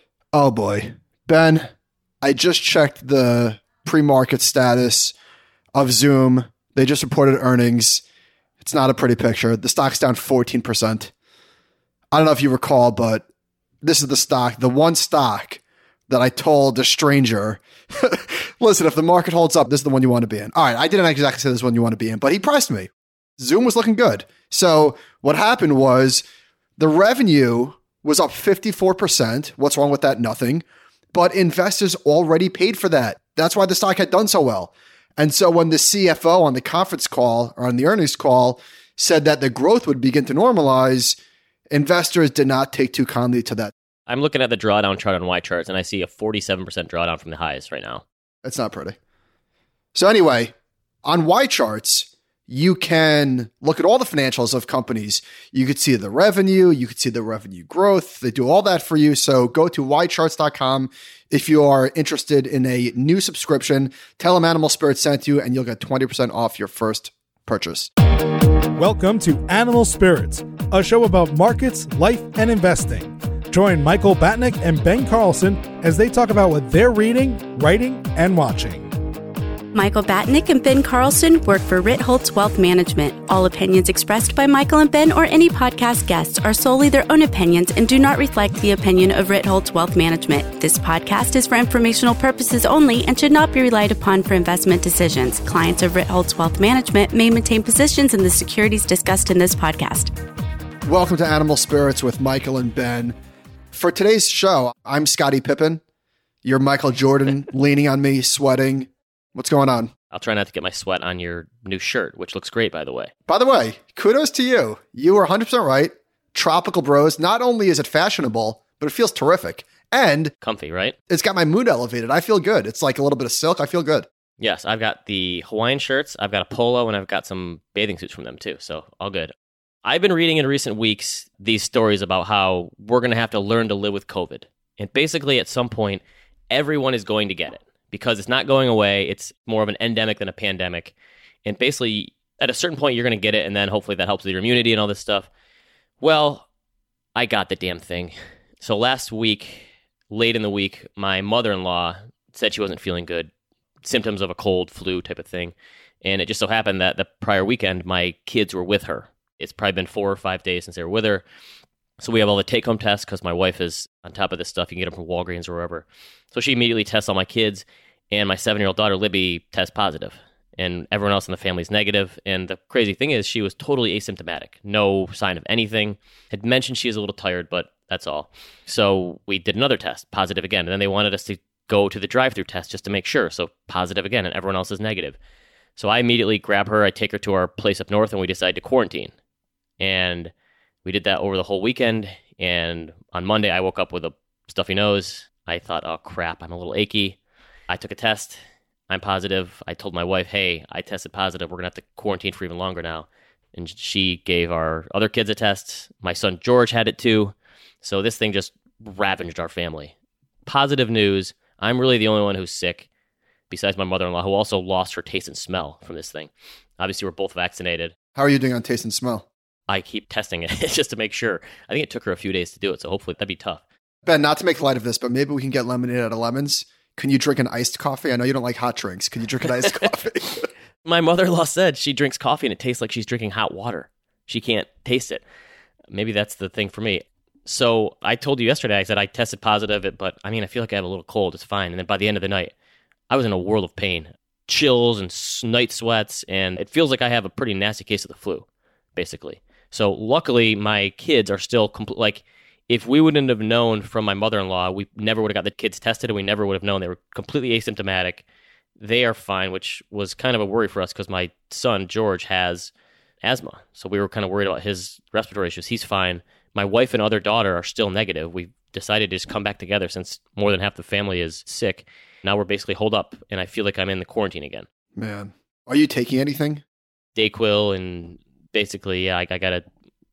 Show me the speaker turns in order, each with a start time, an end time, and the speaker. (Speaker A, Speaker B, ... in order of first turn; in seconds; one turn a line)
Speaker A: 0.3-1.7
Speaker A: 2.2-5.1
Speaker A: 5.7-8.0
Speaker A: 8.6-11.1
Speaker A: 12.1-13.2
Speaker A: 13.8-26.2
Speaker A: 26.8-41.1
Speaker A: 41.7-43.7
Speaker B: 44.1-48.0
Speaker A: 48.4-49.0
Speaker A: 49.9-50.5
Speaker A: 51.0-67.9
Speaker C: 68.4-78.9
Speaker D: 79.7-100.1
Speaker A: 100.9-103.1
Speaker A: 103.7-105.8
Speaker A: 106.4-109.9
Speaker B: 110.1-113.1
Speaker A: 113.3-120.3
Speaker B: 120.4-120.9
Speaker A: 121.1-124.1
Speaker B: 124.4-140.9
Speaker B: 141.4-145.3
Speaker B: 146.0-146.5
Speaker B: 147.1-153.3
Speaker B: 153.8-161.2
Speaker B: 162.0-185.2
Speaker B: 185.8-189.1
Speaker B: 189.8-190.3
Speaker B: 190.8-197.2
Speaker B: 197.7-198.4
Speaker B: 198.9-209.9
Speaker B: 210.4-212.9
Speaker B: 213.5-217.9
Speaker A: 218.1-219.3
Speaker B: 219.7-223.6
Speaker A: 224.1-230.5
Speaker B: 229.4-229.9
Speaker B: 230.8-235.2
Speaker B: 235.9-242.5
Speaker B: 243.1-258.2
Speaker B: 258.8-262.7
Speaker B: 263.2-274.7
Speaker A: 274.9-276.6
Speaker B: 277.1-279.6